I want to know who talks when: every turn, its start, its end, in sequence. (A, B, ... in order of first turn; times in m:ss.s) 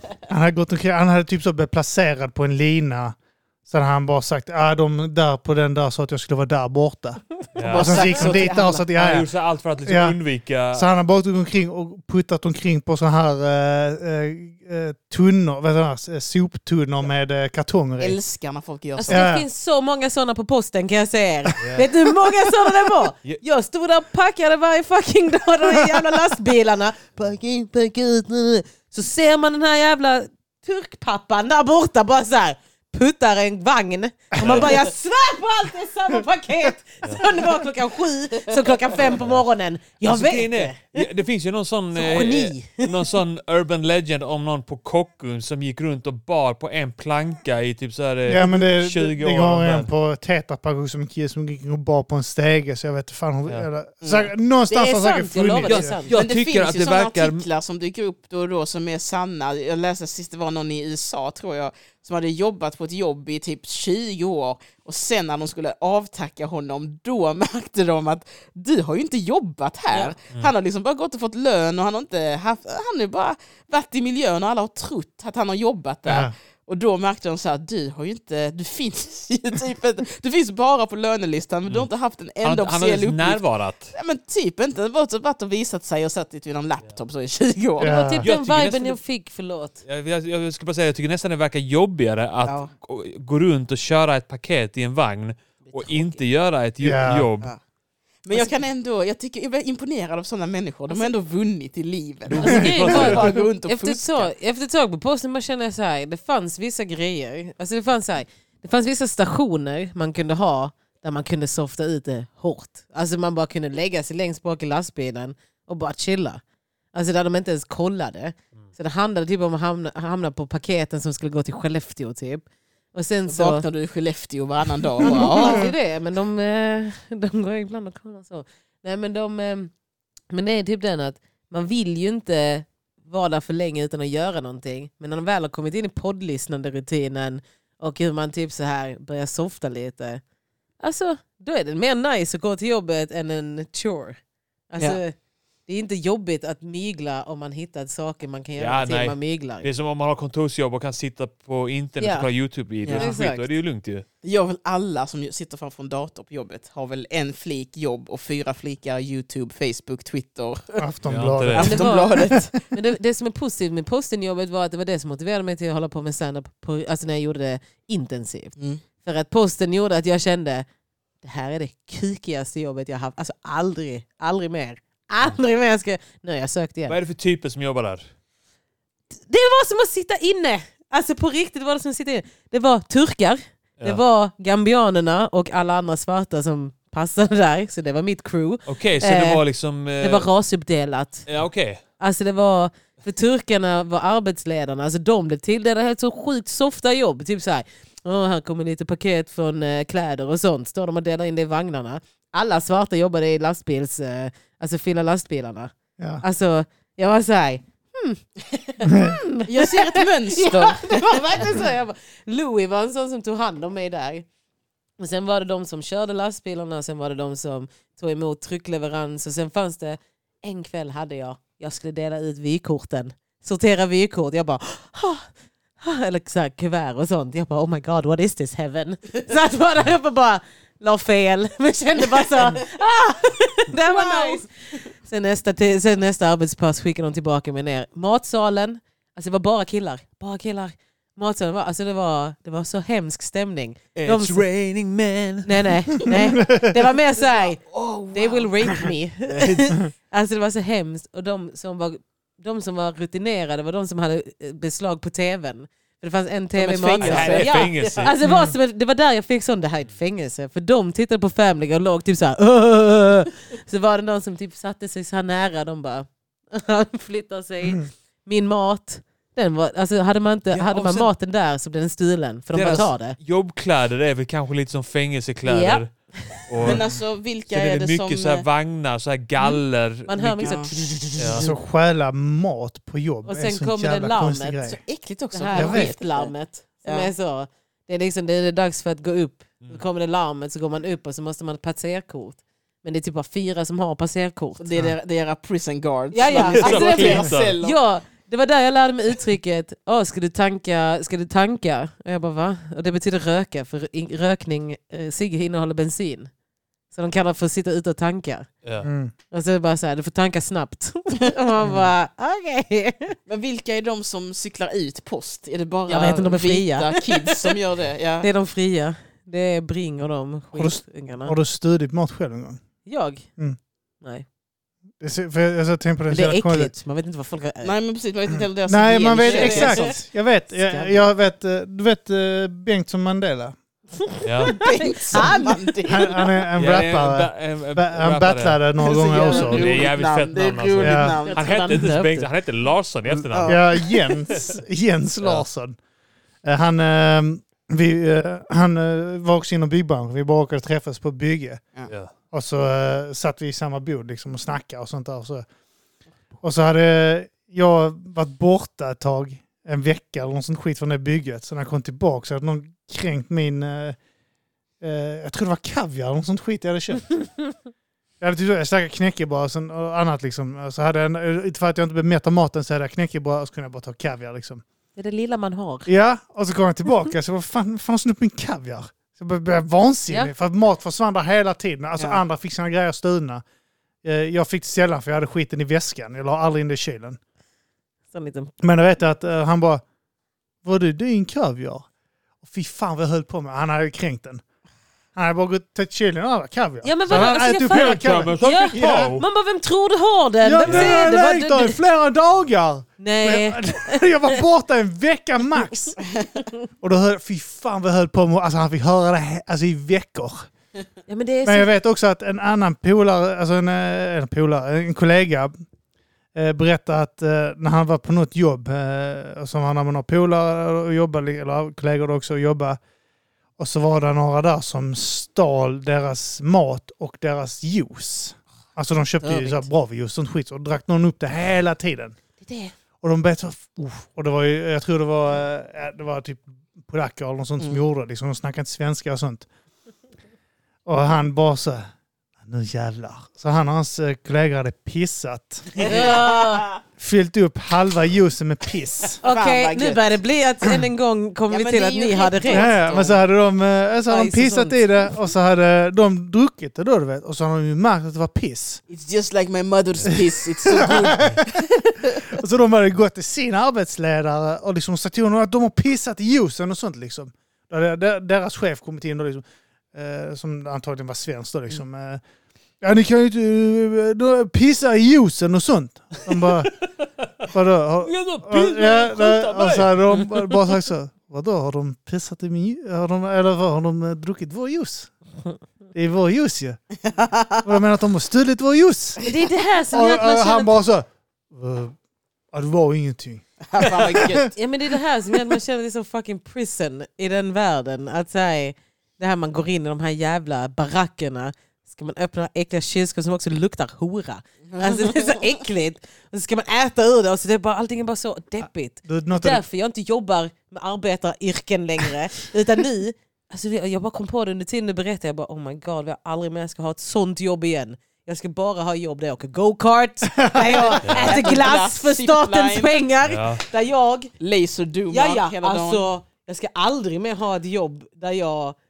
0:00.2-0:09.3 A
0:07.5-0:08.4 B
0:07.6-0:08.8 C
0:08.9-0:10.9 B
0:09.8-0:10.2 A
0:10.7-0:18.2 A
0:18.0-0:19.2 C
0:19.0-0:41.0 D
0:19.1-0:19.4 A
0:21.6-0:21.9 B
0:34.4-0:34.6 A
0:34.4-0:34.8 B
0:39.2-0:39.4 B
0:40.0-0:49.9 B
0:41.9-0:43.0 D
0:48.2-0:55.9 A
0:54.0-0:54.3 C
0:54.7-0:56.1 D
0:55.6-0:57.4 B
0:56.1-1:28.0 C
1:16.0-1:16.3 A
1:22.4-1:23.9 B
1:27.8-1:28.3 A
1:27.8-1:29.8 D
1:28.2-1:29.0 B
1:29.8-1:37.5 B
1:32.4-1:32.7 C
1:36.8-1:37.3 A
1:38.2-1:44.3 C
1:42.3-1:43.3 B
1:42.4-1:56.4 D
1:42.5-1:43.1 A
1:56.9-2:03.6 D
2:03.3-2:05.7 C
2:05.0-2:09.7 D
2:05.1-2:05.7 A
2:10.3-2:20.2 D
2:20.8-2:24.2 D
2:24.7-2:25.1 D
2:25.7-2:29.7 D
2:28.6-2:34.0 B
2:32.0-2:32.3 D
2:32.8-2:33.1 C
2:32.9-2:33.4 D
2:34.2-2:40.8 C
2:40.8-2:42.4 A
2:41.1-2:41.8 B
2:41.5-2:42.5 C
2:41.6-2:50.6 D
2:48.6-2:48.8 C
2:51.2-2:57.0 D
2:56.9-2:58.0 B
2:59.1-3:09.4 D
3:08.6-3:10.3 B
3:10.0-3:11.3 D
3:11.3-3:11.8 B
3:12.0-3:34.2 D
3:26.0-3:26.2 A
3:28.9-3:29.2 A
3:29.5-3:31.5 C
3:35.0-3:45.3 D
3:45.8-4:04.4 D
3:52.3-3:52.6 C
3:53.8-3:54.4 C
4:04.0-4:05.7 B
4:05.4-4:07.6 D
4:06.1-4:06.8 A
4:07.4-4:08.4 C
4:08.1-4:33.2 D
4:09.3-4:09.7 B
4:16.6-4:18.1 C
4:17.0-4:18.1 B
4:18.2-4:18.5 A
4:30.5-4:31.1 B
4:32.5-4:36.8 B
4:35.4-4:36.5 D
4:36.6-4:38.4 C
4:37.5-4:40.6 B
4:40.0-4:41.5 D
4:40.4-4:40.7 C
4:41.2-4:41.5 B
4:41.4-4:44.8 A
4:43.2-4:44.7 D
4:44.8-4:46.3 C
4:45.3-4:54.6 D
4:45.5-4:45.9 A
4:46.8-4:47.1 C
4:54.6-4:57.8 C
4:56.1-5:06.3 D
4:56.4-4:57.5 B
5:06.9-5:08.5 D
5:08.6-5:08.9 B
5:08.8-5:09.1 A
5:09.3-5:13.2 D
5:13.3-5:18.3 C
5:15.9-5:17.5 D
5:18.2-5:21.4 D
5:20.5-5:22.6 A
5:22.8-5:23.2 D
5:25.0-5:26.7 A
5:26.1-5:27.8 D
5:27.6-5:29.9 C
5:28.6-5:33.6 A
5:29.2-5:30.0 D
5:30.5-5:31.0 D
5:34.1-5:35.7 D
5:34.2-5:34.6 B
5:34.4-5:36.3 C
5:35.8-5:39.8 A
5:36.6-5:38.6 B
5:38.8-5:41.8 C
5:39.3-5:43.6 B
5:40.8-5:41.2 A
5:41.2-5:42.3 D
5:43.3-5:43.6 C
5:43.4-5:45.8 A
5:46.4-5:51.6 A
5:52.3-5:55.4 A
5:56.4-6:04.0 A
6:04.8-6:07.3 A
6:08.2-6:14.6 A
6:15.0-6:15.9 D
6:15.9-6:23.4 A
6:24.0-6:27.2 A
6:28.1-6:28.5 D
6:28.6-6:29.8 A
6:30.6-6:31.9 A
6:32.4-6:34.4 A
6:35.1-6:39.2 A
6:36.8-6:41.8 D
6:37.1-6:39.2 B
6:40.4-6:46.0 A
6:40.6-6:41.0 B
6:43.0-6:44.1 D
6:46.8-6:50.5 A
6:51.1-6:51.7 D
6:51.4-6:55.5 A
6:56.3-7:02.8 A
7:03.6-7:12.2 A
7:09.2-7:09.6 C
7:12.4-7:12.7 D
7:13.0-7:19.4 A
7:20.8-7:21.9 A
7:22.4-7:26.1 A
7:25.8-7:26.8 C
7:25.8-7:26.7 D
7:27.0-7:29.2 A
7:29.2-7:30.0 C
7:29.2-7:32.7 D
7:31.5-7:33.2 C
7:32.5-7:38.8 A
7:34.1-7:34.8 D
7:38.9-7:42.3 C
7:40.0-7:52.2 A
7:52.8-7:56.7 A
7:57.2-7:57.5 B
7:57.5-8:05.1 A
7:58.0-8:00.7 B
8:05.9-8:06.8 A
8:07.1-8:07.6 C
8:07.6-8:09.2 A
8:09.2-8:10.7 D
8:09.9-8:12.0 A
8:12.5-8:14.5 A
8:13.7-8:14.5 C
8:14.5-8:44.3 D
8:24.7-8:25.4 C
8:29.0-8:29.6 A
8:40.4-8:40.9 A
8:40.8-8:43.0 C
8:41.1-8:41.4 B
8:43.2-8:43.6 B
8:44.4-8:46.0 C
8:45.1-8:48.8 D